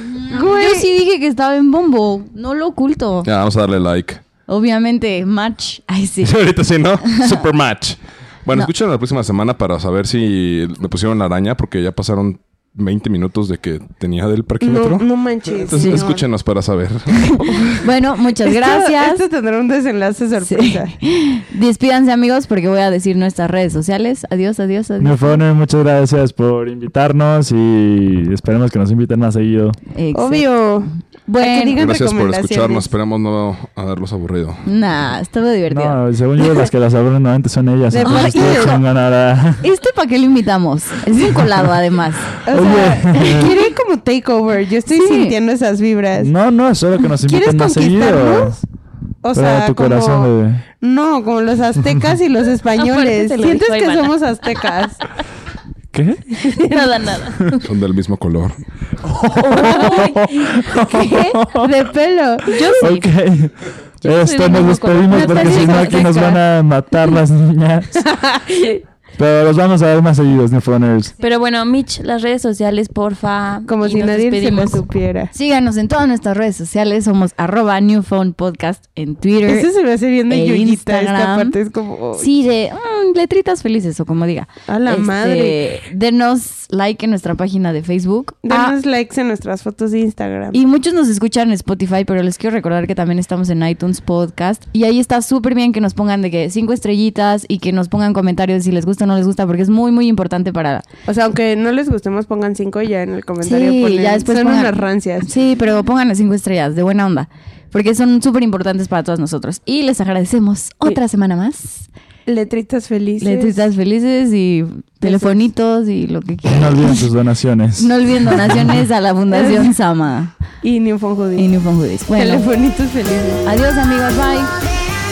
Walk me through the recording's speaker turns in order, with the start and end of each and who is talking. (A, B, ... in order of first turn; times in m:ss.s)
0:00.2-0:03.3 A
0:00.3-0:00.9 B
0:03.2-0:04.2 C
0:04.5-0:07.4 A
0:06.2-0:17.8 C
0:14.6-0:16.2 B
0:15.8-0:16.1 A
0:17.2-0:19.2 A
0:18.3-0:21.0 B
0:20.4-0:25.4 A
0:25.0-0:29.8 D
0:29.9-0:30.6 A
0:30.1-0:32.9 B
0:31.3-0:31.8 A
0:31.8-0:34.6 C
0:34.6-0:36.0 A
0:35.7-0:39.6 D
0:37.9-0:38.8 B
0:38.0-0:38.8 A
0:39.6-0:42.4 A
0:42.4-0:46.3 B
0:42.5-0:43.6 D
0:44.9-0:45.4 A
0:46.2-0:48.6 D
0:47.2-0:48.6 B
0:49.2-0:55.0 B
0:49.3-0:50.6 D
0:52.8-0:54.8 E
0:55.9-0:56.3 D
0:56.3-0:57.0 B
0:56.5-0:57.7 E
0:57.6-0:58.6 C
0:59.0-1:01.9 D
0:59.6-1:00.2 E
0:59.8-1:00.1 B
1:00.9-1:02.8 B
1:02.4-1:08.0 D
1:02.5-1:03.1 E
1:04.0-1:06.4 E
1:05.1-1:06.4 B
1:08.1-1:08.8 B
1:09.2-1:11.1 D
1:11.2-1:14.8 E
1:13.7-1:15.3 B
1:15.3-1:19.7 A
1:19.4-1:22.3 B
1:20.3-1:21.6 A
1:22.2-1:28.8 A
1:24.7-1:25.7 B
1:28.4-1:30.6 B
1:30.5-1:40.9 A
1:41.0-1:45.3 B
1:43.4-1:51.9 A
1:52.2-1:53.6 B
1:53.2-1:57.0 A
1:55.0-1:55.5 B
1:56.5-1:58.8 D
1:57.8-2:00.3 A
1:59.3-1:59.7 B
2:00.6-2:01.5 B
2:01.4-2:02.5 A
2:02.1-2:03.4 B
2:03.4-2:04.5 A